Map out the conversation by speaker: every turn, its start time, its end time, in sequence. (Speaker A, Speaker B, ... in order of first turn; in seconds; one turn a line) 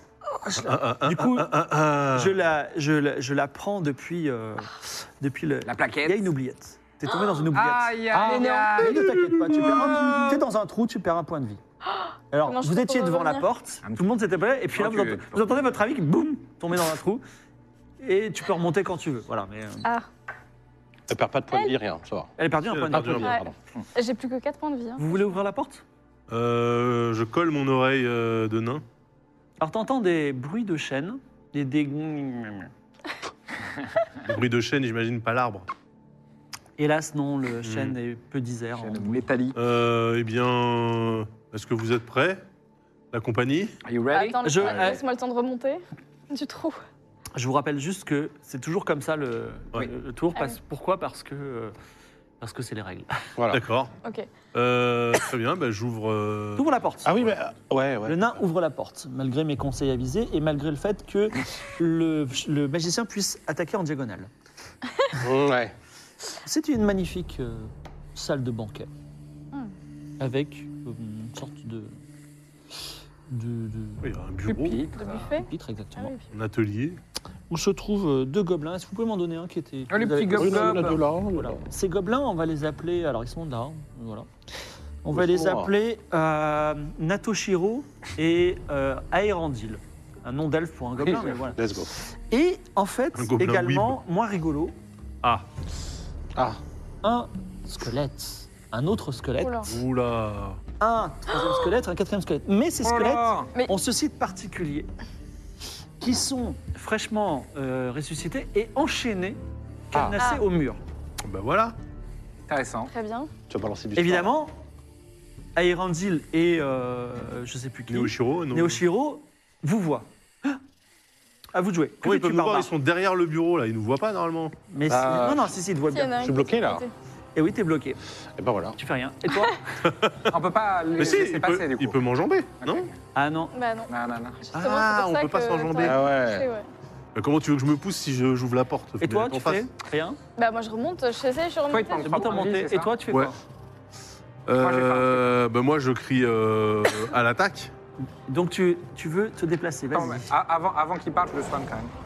Speaker A: 0.3-1.5
Speaker B: 0.6-2.4
Speaker A: 2.1-11.6
Speaker C: 5.7-6.3
Speaker C: 7.5-10.4
Speaker D: 8.1-8.6
Speaker E: 11.9-13.5
Speaker A: 12.3-17.2
Speaker C: 14.7-15.5
Speaker A: 18.0-19.9
Speaker D: 21.1-22.3
Speaker A: 22.4-23.3
Speaker B: 22.7-23.4
Speaker D: 22.9-23.5
Speaker E: 23.2-25.2
Speaker A: 25.0-25.8
Speaker B: 26.3-28.8
Speaker A: 29.6-32.7
Speaker B: 34.2-35.7
Speaker A: 36.8-39.2
Speaker B: 37.6-38.0
Speaker C: 38.8-39.6
Speaker B: 39.5-42.4
Speaker B: 43.1-43.7
Speaker C: 43.9-44.9
Speaker E: 44.1-46.8
Speaker A: 44.5-45.0
Speaker A: 47.4-51.7
Speaker A: 52.4-53.2
Speaker D: 53.4-53.6
Speaker B: 53.5-53.9
Speaker E: 54.0-54.3
Speaker B: 54.5-56.7
Speaker A: 56.6-57.1
Speaker D: 57.0-58.2
Speaker A: 58.1-64.3
Speaker D: 65.2-65.8
Speaker A: 66.5-68.9
Speaker A: 70.2-72.0
Speaker A: 73.3-74.0
Speaker B: 74.0-74.9
Speaker C: 74.5-75.4
Speaker E: 75.0-76.3
Speaker A: 75.4-76.1
Speaker B: 76.3-77.0
Speaker A: 77.5-84.3
Speaker C: 79.9-81.0
Speaker D: 80.3-81.6
Speaker A: 85.0-94.8
Speaker D: 85.1-85.7
Speaker D: 91.4-91.9
Speaker B: 93.2-94.0
Speaker D: 96.3-96.6
Speaker A: 97.0-99.7
Speaker E: 99.4-99.8
Speaker B: 99.7-100.6
Speaker A: 100.8-104.9
Speaker C: 102.8-103.5
Speaker A: 106.0-109.4
Speaker A: 109.9-110.8
Speaker E: 110.2-110.4
Speaker B: 111.2-111.8
Speaker C: 112.5-112.9
Speaker E: 112.9-113.3
Speaker D: 113.5-114.3
Speaker A: 114.0-114.5
Speaker A: 115.6-120.6
Speaker B: 117.9-118.8
Speaker A: 121.5-122.7
Speaker B: 122.0-124.5
Speaker A: 124.7-126.2
Speaker D: 124.9-125.6
Speaker E: 125.9-126.9
Speaker D: 126.2-126.8
Speaker A: 127.4-128.0
Speaker D: 128.4-128.8
Speaker A: 128.8-129.6
Speaker B: 129.8-130.3
Speaker C: 130.3-132.0
Speaker B: 131.0-132.9
Speaker C: 132.6-132.9
Speaker A: 133.2-133.5
Speaker E: 133.5-136.7
Speaker C: 133.9-134.4
Speaker B: 134.5-136.0
Speaker D: 135.8-136.5
Speaker B: 137.2-139.7
Speaker A: 139.0-140.2
Speaker E: 140.4-142.2
Speaker C: 141.7-142.9
Speaker A: 142.0-143.4
Speaker B: 144.5-147.7
Speaker C: 144.6-145.3
Speaker A: 148.3-150.3
Speaker C: 149.9-151.9